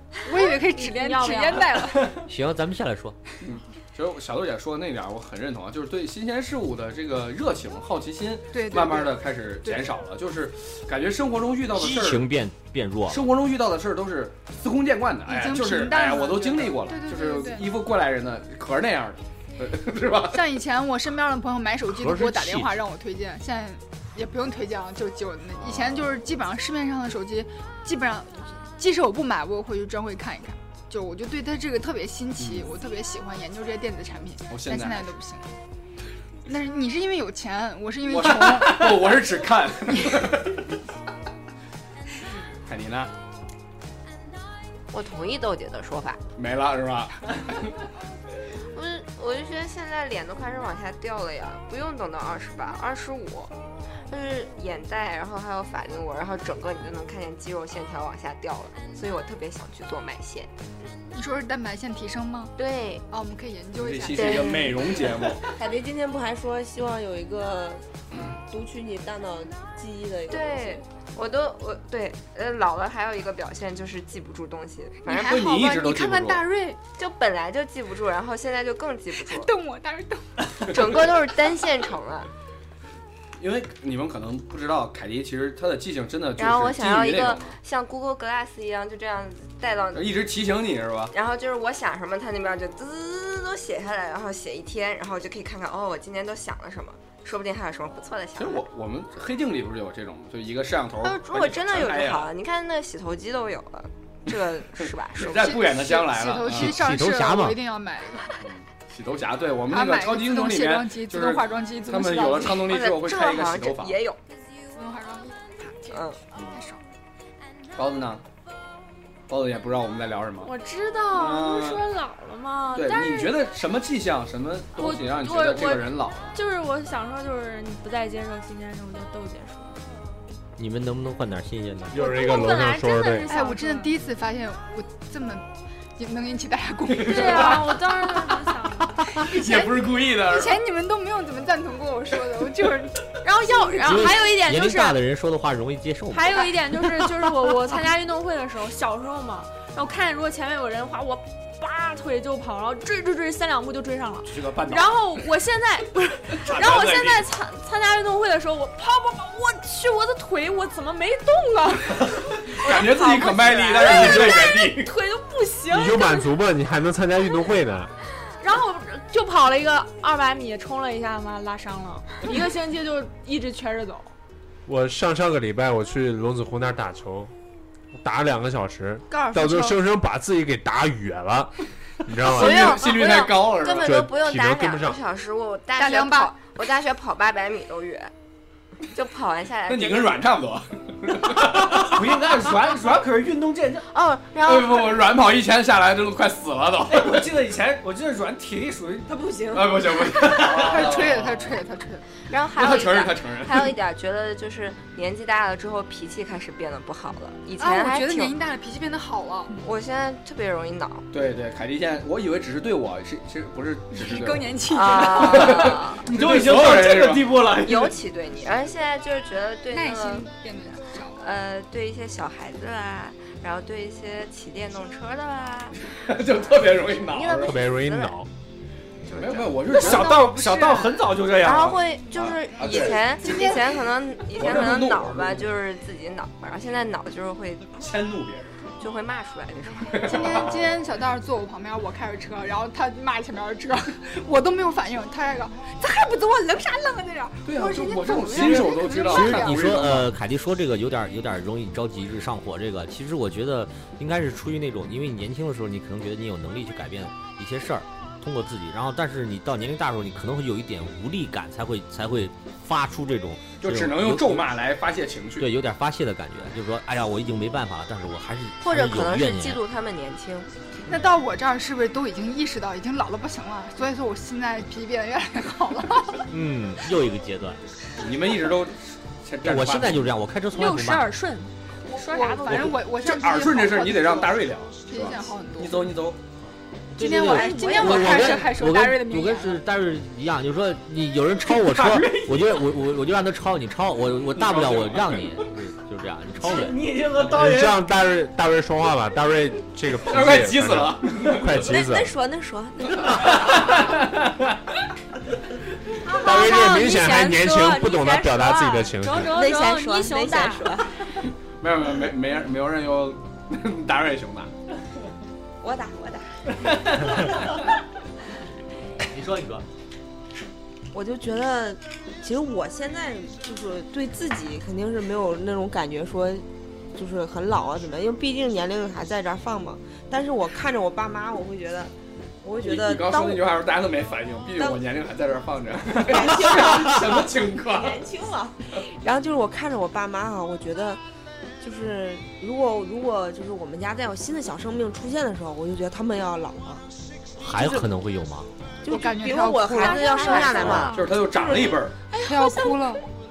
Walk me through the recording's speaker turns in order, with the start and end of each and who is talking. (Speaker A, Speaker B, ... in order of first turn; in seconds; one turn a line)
Speaker A: 0.2-2.1
Speaker B: 0.3-2.0
Speaker C: 2.3-3.2
Speaker D: 3.4-12.3
Speaker A: 8.5-9.8
Speaker C: 11.7-13.3
Speaker D: 13.1-20.4
Speaker A: 15.3-17.8
Speaker A: 20.3-35.5
Speaker C: 21.9-22.7
Speaker D: 25.6-26.2
Speaker D: 32.4-32.7
Speaker D: 34.5-35.1
Speaker A: 36.5-39.2
Speaker D: 38.1-40.6
Speaker A: 39.9-40.3
Speaker D: 42.7-43.1
Speaker E: 44.9-46.2
Speaker D: 46.4-47.7
Speaker E: 48.7-53.5
Speaker E: 54.1-60.5
Speaker A: 61.1-62.5
Speaker E: 62.6-63.0
Speaker A: 63.1-64.6
Speaker D: 63.8-65.5
Speaker E: 64.1-65.0
Speaker F: 65.4-67.8
Speaker F: 68.5-70.8
Speaker E: 70.3-75.5
Speaker A: 75.0-76.8
Speaker D: 75.2-76.5
Speaker E: 77.0-79.5
Speaker A: 79.2-80.5
Speaker E: 80.6-82.3
Speaker D: 83.4-87.5
Speaker E: 86.4-90.3
Speaker D: 89.9-91.1
Speaker E: 91.1-98.7
Speaker D: 98.4-102.3
Speaker E: 101.0-105.7
Speaker D: 104.8-106.8
Speaker A: 105.3-108.3
Speaker C: 106.5-107.6
Speaker D: 108.4-114.0
Speaker A: 109.7-112.7
Speaker E: 112.6-114.2
Speaker A: 114.8-116.8
Speaker E: 115.9-116.2
Speaker D: 117.8-118.2
Speaker D: 119.3-120.5
Speaker B: 120.4-123.5
Speaker D: 121.1-121.9
Speaker D: 122.7-126.4
Speaker B: 124.8-129.9
Speaker C: 130.6-132.0
Speaker G: 131.9-133.3
Speaker B: 131.9-134.0
Speaker A: 133.3-137.7
Speaker D: 136.9-137.7
Speaker B: 137.0-139.1
Speaker D: 139.2-140.6
Speaker A: 139.2-143.7
Speaker B: 143.2-145.0
Speaker C: 143.8-146.4
Speaker B: 146.1-166.3
Speaker D: 154.2-155.0
Speaker D: 156.4-157.2
Speaker D: 162.5-164.9
Speaker G: 163.8-164.4
Speaker G: 165.7-167.9
Speaker B: 168.4-174.1
Speaker G: 174.7-177.3
Speaker G: 177.9-182.8
Speaker A: 179.1-179.8
Speaker E: 182.2-188.1
Speaker D: 182.3-183.9
Speaker G: 183.7-185.0
Speaker A: 185.8-186.3
Speaker E: 188.9-190.3
Speaker D: 189.7-192.1
Speaker H: 191.4-193.9
Speaker E: 194.3-194.9
Speaker D: 194.4-197.2
Speaker H: 196.9-201.1
Speaker F: 199.4-199.7
Speaker D: 199.5-201.4
Speaker A: 200.5-202.0
Speaker E: 202.3-208.3
Speaker D: 202.5-203.8
Speaker A: 207.6-209.6
Speaker E: 209.6-211.1
Speaker D: 211.1-214.5
Speaker A: 213.9-215.7
Speaker E: 214.7-216.0
Speaker D: 215.2-217.5
Speaker H: 216.0-218.0
Speaker E: 217.5-220.3
Speaker A: 219.7-221.2
Speaker E: 221.2-225.9
Speaker D: 226.0-227.7
Speaker E: 226.4-228.2
Speaker G: 227.3-228.3
Speaker E: 229.1-229.7
Speaker D: 229.1-230.3
Speaker H: 229.7-231.8
Speaker A: 229.7-231.0
Speaker E: 231.4-237.8
Speaker D: 232.1-233.5
Speaker A: 232.7-233.6
Speaker D: 234.3-235.5
Speaker D: 237.8-238.6
Speaker E: 238.8-240.3
Speaker D: 239.9-240.5
Speaker A: 240.0-249.6
Speaker D: 247.4-250.1
Speaker C: 249.1-264.5
Speaker D: 263.6-265.5
Speaker C: 265.4-269.6
Speaker E: 268.6-270.5
Speaker A: 270.9-276.3
Speaker C: 276.3-277.6
Speaker D: 278.0-280.1
Speaker C: 279.4-281.1
Speaker B: 280.5-282.7
Speaker A: 281.9-285.9
Speaker C: 282.5-282.8
Speaker D: 283.0-286.3
Speaker C: 286.9-296.9
Speaker A: 287.0-289.6
Speaker B: 287.2-288.5
Speaker H: 291.5-292.6
Speaker D: 294.3-295.2
Speaker H: 296.4-297.8
Speaker G: 297.2-302.1
Speaker D: 300.0-301.6
Speaker F: 301.5-303.4
Speaker B: 306.1-310.8
Speaker G: 306.1-309.4
Speaker F: 309.2-311.0
Speaker D: 311.2-314.5
Speaker F: 315.6-317.2
Speaker C: 319.1-319.6
Speaker F: 320.9-333.5
Speaker D: 332.6-338.1
Speaker F: 336.0-341.0
Speaker F: 341.6-346.8
Speaker C: 347.4-348.5
Speaker F: 347.4-347.9
Speaker F: 348.8-351.0
Speaker A: 348.9-350.6
Speaker E: 349.7-350.9
Speaker B: 349.8-353.0
Speaker D: 350.9-352.0
Speaker A: 352.2-353.0